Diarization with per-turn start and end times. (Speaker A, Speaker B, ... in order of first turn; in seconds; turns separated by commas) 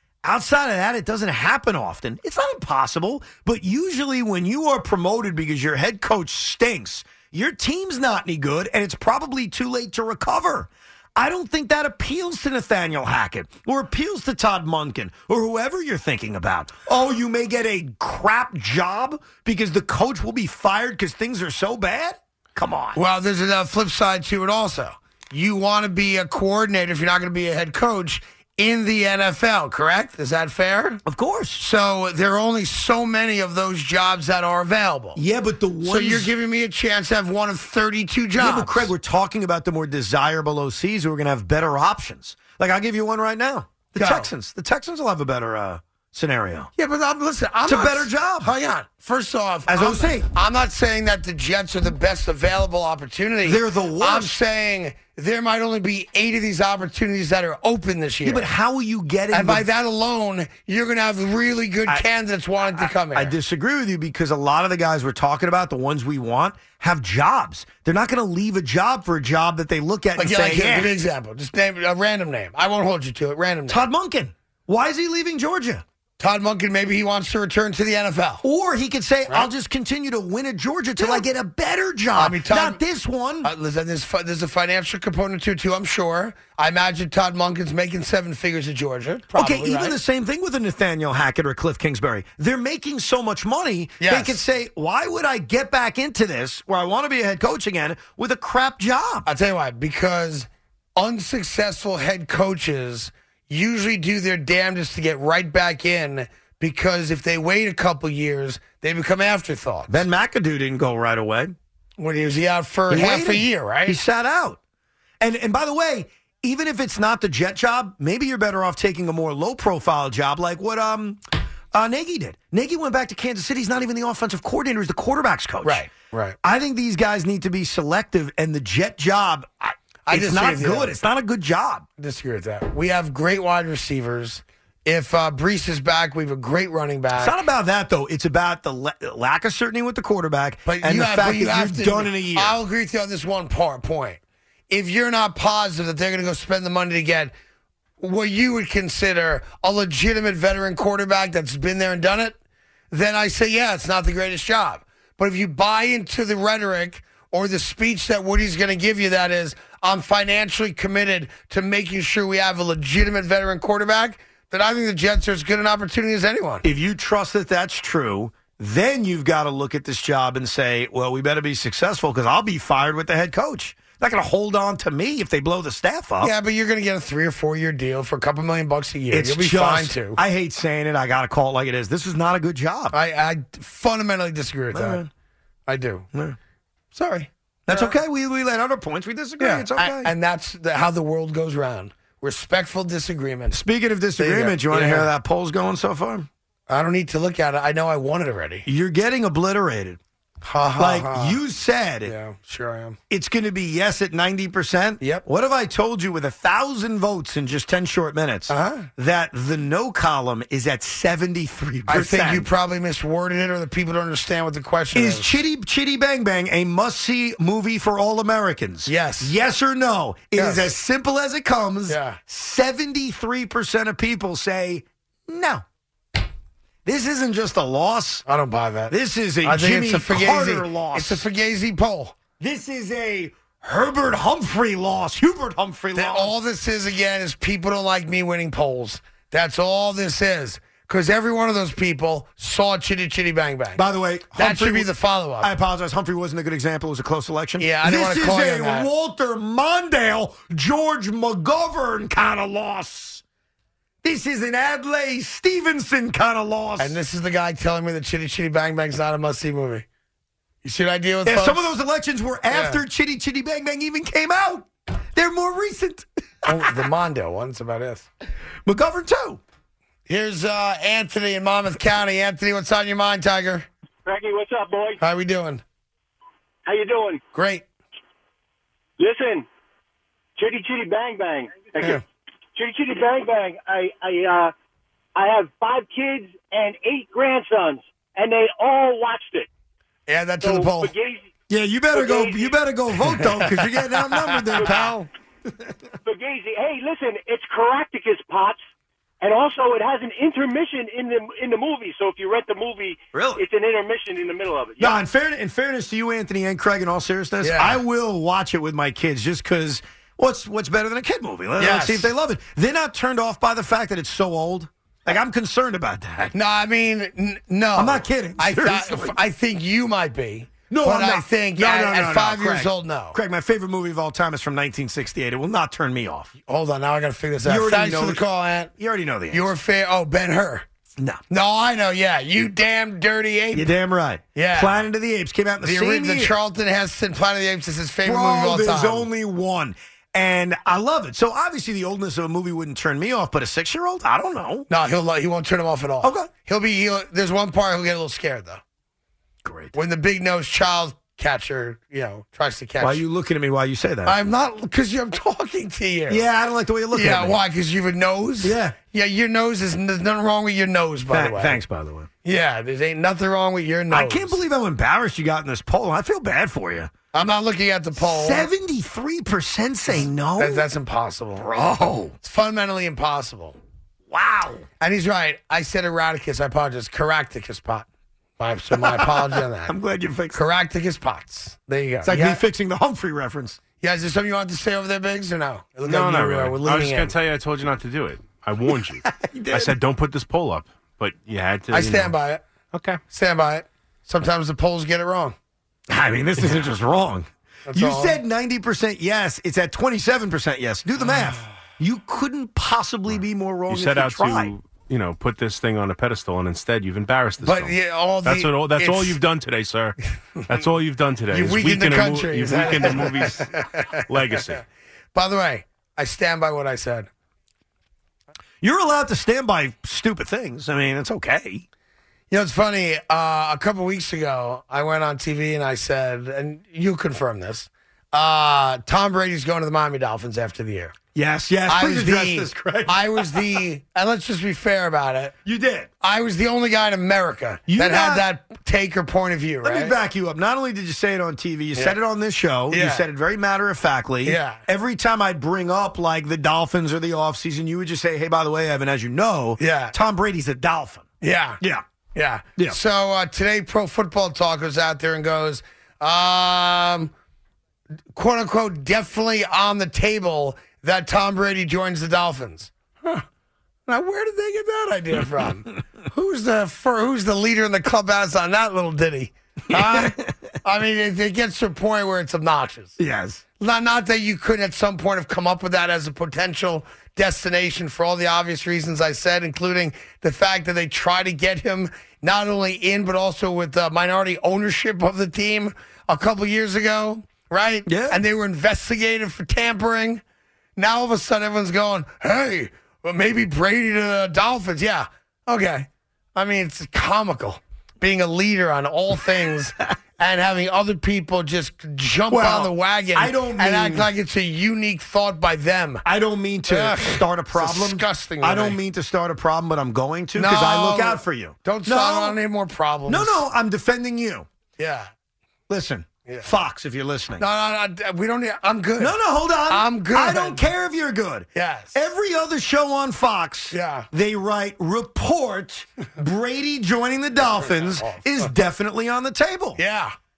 Speaker A: 0.2-23.0, Speaker B: 22.9-31.0, Speaker A: 31.1-31.6, Speaker B: 31.6-35.2, Speaker A: 35.2-36.3, Speaker B: 35.8-38.9, Speaker A: 38.4-46.7, Speaker B: 44.0-44.3, Speaker B: 46.8-58.5, Speaker A: 47.6-48.5, Speaker A: 49.7-50.3, Speaker A: 53.4-54.3, Speaker A: 58.2-59.7, Speaker B: 59.3-63.3, Speaker A: 62.6-70.9, Speaker B: 70.2-73.8, Speaker A: 73.7-75.8, Speaker B: 76.2-78.4, Speaker A: 78.4-83.5, Speaker B: 81.0-81.2, Speaker B: 82.1-82.8, Speaker B: 83.4-90.0, Speaker A: 89.4-99.3, Speaker B: 94.0-94.4, Speaker B: 99.3-110.0, Speaker A: 109.9-111.5, Speaker B: 112.0-114.0, Speaker A: 112.9-114.6, Speaker A: 115.2-121.2, Speaker A: 121.7-125.8, Speaker B: 125.6-126.4, Speaker A: 126.4-131.8, Speaker B: 130.1-130.9, Speaker B: 132.0-137.3, Speaker A: 137.2-142.6, Speaker B: 140.7-147.3, Speaker B: 148.0-152.4, Speaker B: 152.9-166.6, Speaker A: 166.6-176.3, Speaker B: 176.2-180.2, Speaker A: 179.1-182.9, Speaker B: 182.9-185.0, Speaker A: 184.7-185.1, Speaker B: 185.7-186.1, Speaker B: 186.9-187.9, Speaker A: 187.7-190.1, Speaker B: 189.4-193.6, Speaker A: 193.5-196.3, Speaker B: 194.2-195.1, Speaker B: 196.7-198.7, Speaker A: 198.7-200.0, Speaker B: 200.4-201.4, Speaker A: 200.8-202.1, Speaker B: 202.1-203.0, Speaker A: 203.1-212.5, Speaker B: 208.5-208.9, Speaker B: 211.9-215.3, Speaker A: 214.9-225.6, Speaker B: 218.9-219.3, Speaker B: 220.4-220.7, Speaker B: 221.9-222.2, Speaker A: 226.9-228.2, Speaker B: 228.3-232.2, Speaker A: 228.9-231.2, Speaker A: 232.4-236.3, Speaker B: 236.0-243.8, Speaker A: 243.8-244.9, Speaker B: 244.4-245.5, Speaker A: 245.4-253.2, Speaker B: 247.6-248.9, Speaker A: 254.0-257.0, Speaker B: 256.8-259.9, Speaker B: 260.6-261.7, Speaker A: 261.2-266.7, Speaker B: 262.5-262.8, Speaker B: 266.5-268.1, Speaker A: 268.7-269.4, Speaker B: 270.1-273.7, Speaker C: 274.1-275.0, Speaker B: 275.0-275.6, Speaker C: 276.6-277.2, Speaker B: 277.4-277.6, Speaker C: 279.0-279.5, Speaker C: 280.4-282.0, Speaker C: 282.6-284.5, Speaker C: 285.1-289.5, Speaker B: 290.1-290.9, Speaker C: 290.4-291.3, Speaker A: 291.5-295.0, Speaker C: 291.9-292.6, Speaker B: 294.2-295.1, Speaker C: 296.0-298.6, Speaker C: 299.2-305.0, Speaker A: 303.1-303.4, Speaker A: 304.8-316.4, Speaker B: 307.4-307.8, Speaker B: 311.6-312.1, Speaker B: 316.3-323.2, Speaker A: 317.8-319.2, Speaker A: 320.7-326.3, Speaker B: 326.4-328.7, Speaker A: 327.4-328.2, Speaker A: 328.8-329.5, Speaker B: 329.3-330.6, Speaker B: 331.3-333.7, Speaker A: 333.5-336.3, Speaker B: 334.4-334.8, Speaker B: 335.6-339.1, Speaker A: 338.0-344.7, Speaker B: 344.7-348.6, Speaker A: 346.0-346.3, Speaker A: 349.4-349.7, Speaker B: 349.7-353.0, Speaker A: 352.8-354.2, Speaker B: 354.1-356.2, Speaker A: 356.1-357.4, Speaker B: 356.9-361.6, Speaker A: 358.4-358.8, Speaker A: 361.1-362.1, Speaker B: 362.2-364.4, Speaker A: 363.9-366.9, Speaker B: 367.1-368.5, Speaker A: 368.0-370.6, Speaker B: 369.9-371.5, Speaker A: 371.4-372.2, Speaker B: 372.2-373.6, Speaker A: 374.1-374.7, Speaker B: 374.8-377.9, Speaker B: 378.4-379.7, Speaker A: 378.8-380.4, Speaker B: 380.3-382.4, Speaker A: 382.0-383.6, Speaker B: 383.8-387.2, Speaker D: 385.9-392.1, Speaker A: 388.9-389.8, Speaker B: 391.7-392.4, Speaker D: 392.7-393.0, Speaker B: 393.1-395.4, Speaker A: 395.9-404.5, Speaker B: 397.7-398.2, Speaker D: 403.7-410.0, Speaker B: 407.4-409.2, Speaker D: 410.5-413.5, Speaker B: 411.3-414.6, Speaker D: 414.1-414.6, Speaker B: 415.1-417.1, Speaker A: 418.6-421.6, Speaker B: 422.3-430.9, Speaker A: 431.1-433.6, Speaker B: 431.7-435.4, Speaker A: 435.4-435.9, Speaker B: 436.0-440.0, Speaker A: 437.7-438.2, Speaker A: 439.6-451.1, Speaker B: 442.7-443.1, Speaker B: 444.2-444.6, Speaker B: 449.6-449.9, Speaker B: 451.2-451.6, Speaker B: 452.1-457.1, Speaker B: 458.1-463.2, Speaker B: 463.9-472.9, Speaker A: 469.7-470.3, Speaker A: 473.0-473.4, Speaker B: 473.6-490.2, Speaker A: 487.9-488.2, Speaker B: 490.8-506.0, Speaker A: 502.3-504.1, Speaker A: 506.1-512.4, Speaker B: 506.7-508.8, Speaker B: 510.4-513.4, Speaker A: 513.1-514.5, Speaker B: 514.8-515.1, Speaker A: 515.7-517.5, Speaker B: 517.4-519.1, Speaker A: 519.0-529.8, Speaker B: 519.7-520.6, Speaker B: 521.5-522.0, Speaker B: 523.7-524.1, Speaker B: 527.4-528.5, Speaker B: 529.8-530.1